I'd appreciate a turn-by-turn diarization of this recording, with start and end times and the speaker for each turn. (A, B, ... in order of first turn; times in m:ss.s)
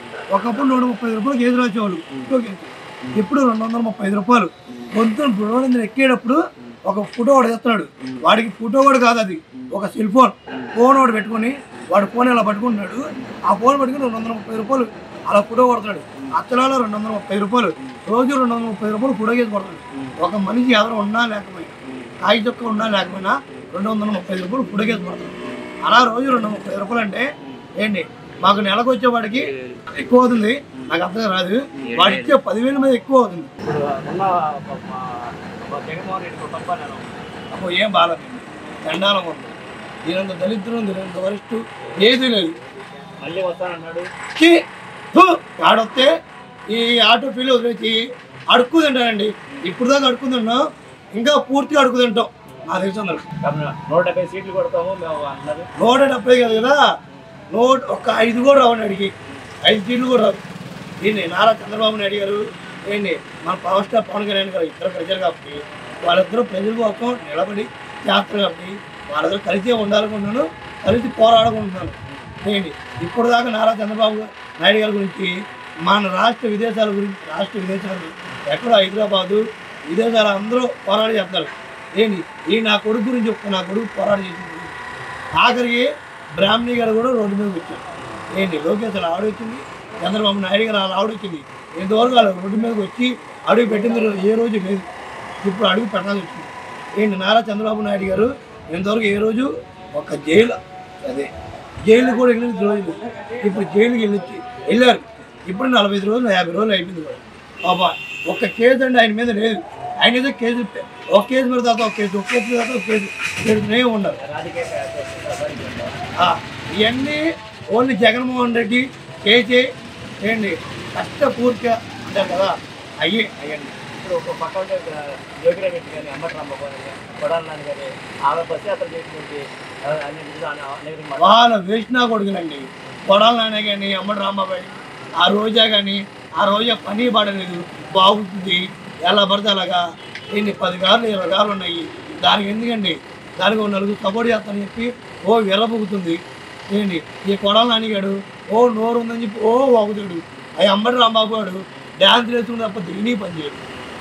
0:00.3-0:33.5 A
0:02.1-0:02.3 B
0:04.7-0:04.9 B
0:21.8-0:22.1 B
0:25.4-0:25.7 B
0:31.7-0:32.4 B
0:33.6-0:37.3 B
0:37.5-0:42.5 A
0:43.2-0:44.1 B
0:45.1-0:46.1 A
0:46.7-0:53.3 A
0:53.4-0:55.7 B
0:55.8-0:56.8 A
0:57.5-1:00.4 A
1:01.0-1:24.8 A
1:25.4-1:34.8 A
1:35.4-1:41.3 A
1:41.8-1:54.2 A
1:54.2-1:55.9 B
1:56.2-1:57.2 A
1:57.7-1:59.7 A
2:00.2-2:03.3 A
2:03.4-2:11.3 B
2:11.2-2:33.6 A